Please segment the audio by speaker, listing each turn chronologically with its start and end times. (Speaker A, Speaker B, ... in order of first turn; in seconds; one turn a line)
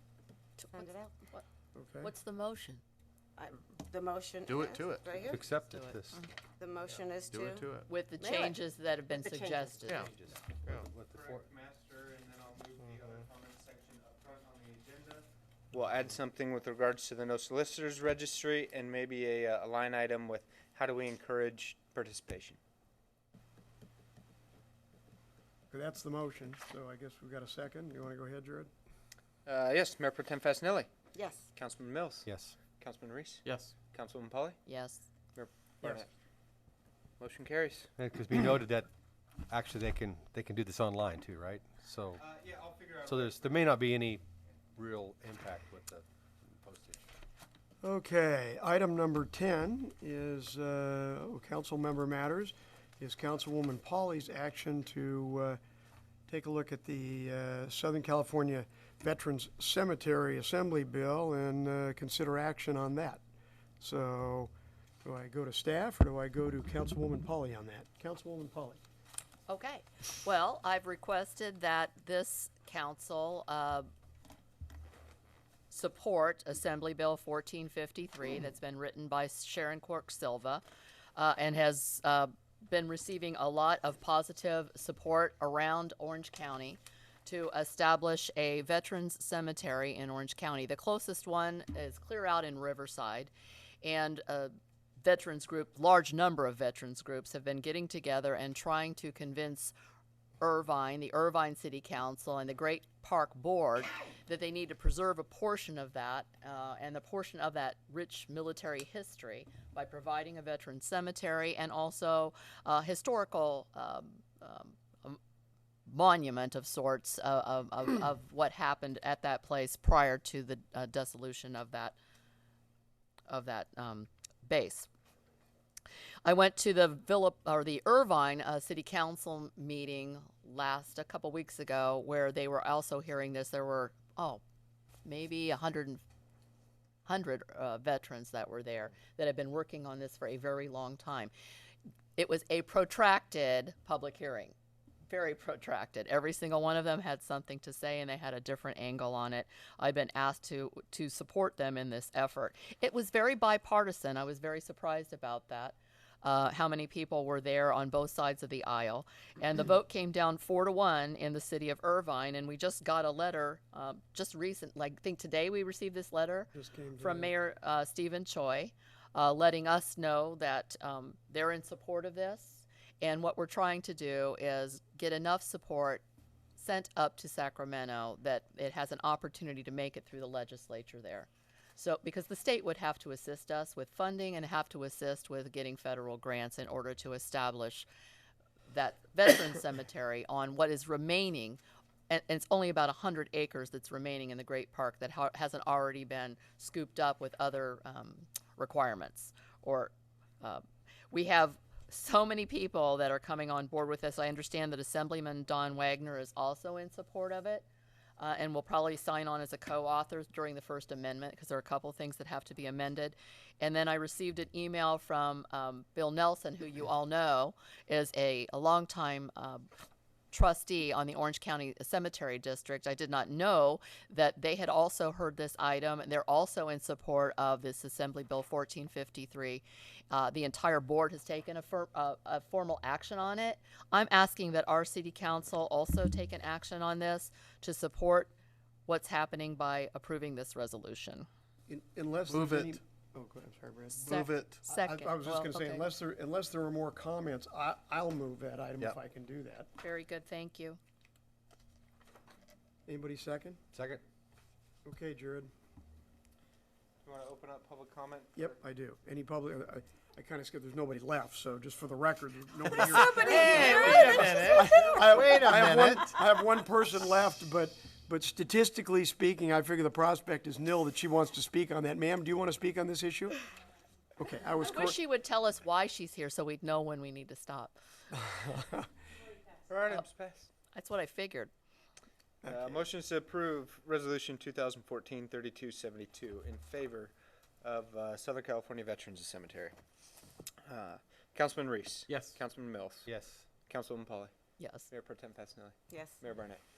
Speaker A: 0.6-1.4
Speaker B: 0.7-1.1
Speaker C: 1.8-2.1
Speaker A: 2.0-2.8
Speaker B: 3.4-5.4
Speaker D: 4.5-5.3
Speaker E: 5.2-6.2
Speaker A: 5.6-6.3
Speaker B: 6.6-7.7
Speaker D: 7.3-7.8
Speaker A: 7.9-10.2
Speaker B: 8.2-8.5
Speaker B: 9.1-9.7
Speaker E: 10.1-11.4
Speaker F: 11.1-22.6
Speaker C: 25.7-28.7
Speaker F: 29.5-30.9
Speaker B: 31.1-31.5
Speaker F: 31.5-34.6
Speaker E: 32.2-32.5
Speaker D: 33.5-33.7
Speaker A: 34.7-35.0
Speaker F: 35.3-36.1
Speaker F: 37.2-37.9
Speaker E: 38.0-38.9
Speaker E: 39.5-42.2
Speaker F: 42.2-43.7
Speaker E: 43.0-44.2
Speaker E: 44.8-47.1
Speaker C: 47.8-55.6
Speaker C: 56.3-63.2
Speaker C: 63.8-64.5
Speaker C: 65.0-68.8
Speaker A: 69.5-73.9
Speaker A: 75.7-80.6
Speaker A: 81.1-93.3
Speaker A: 93.8-99.7
Speaker A: 100.4-115.2
Speaker A: 115.9-122.0
Speaker A: 123.3-124.9
Speaker A: 126.2-134.4
Speaker A: 135.0-136.0
Speaker A: 137.1-141.3
Speaker A: 142.2-144.5
Speaker A: 145.1-176.0
Speaker C: 166.5-167.3
Speaker A: 176.6-187.9
Speaker A: 188.7-207.7
Speaker A: 208.2-219.7
Speaker A: 220.3-238.3
Speaker A: 238.8-241.3
Speaker C: 241.7-249.7
Speaker D: 242.3-242.8
Speaker A: 243.9-245.9
Speaker D: 244.1-244.6
Speaker A: 249.8-250.8
Speaker C: 252.9-253.6
Speaker E: 253.7-254.0
Speaker C: 254.8-255.5
Speaker F: 257.0-258.6
Speaker C: 258.4-273.4
Speaker F: 263.0-266.2
Speaker B: 263.0-265.2
Speaker D: 263.4-264.5
Speaker C: 274.2-275.0
Speaker A: 274.6-277.8
Speaker C: 278.1-278.9
Speaker F: 279.6-280.5
Speaker A: 280.7-281.5
Speaker C: 282.4-282.9
Speaker F: 282.5-289.8
Speaker F: 290.6-293.1
Speaker D: 292.1-292.4
Speaker E: 293.1-293.4
Speaker F: 293.6-294.3
Speaker A: 294.6-294.9
Speaker F: 294.9-296.6
Speaker B: 295.9-296.2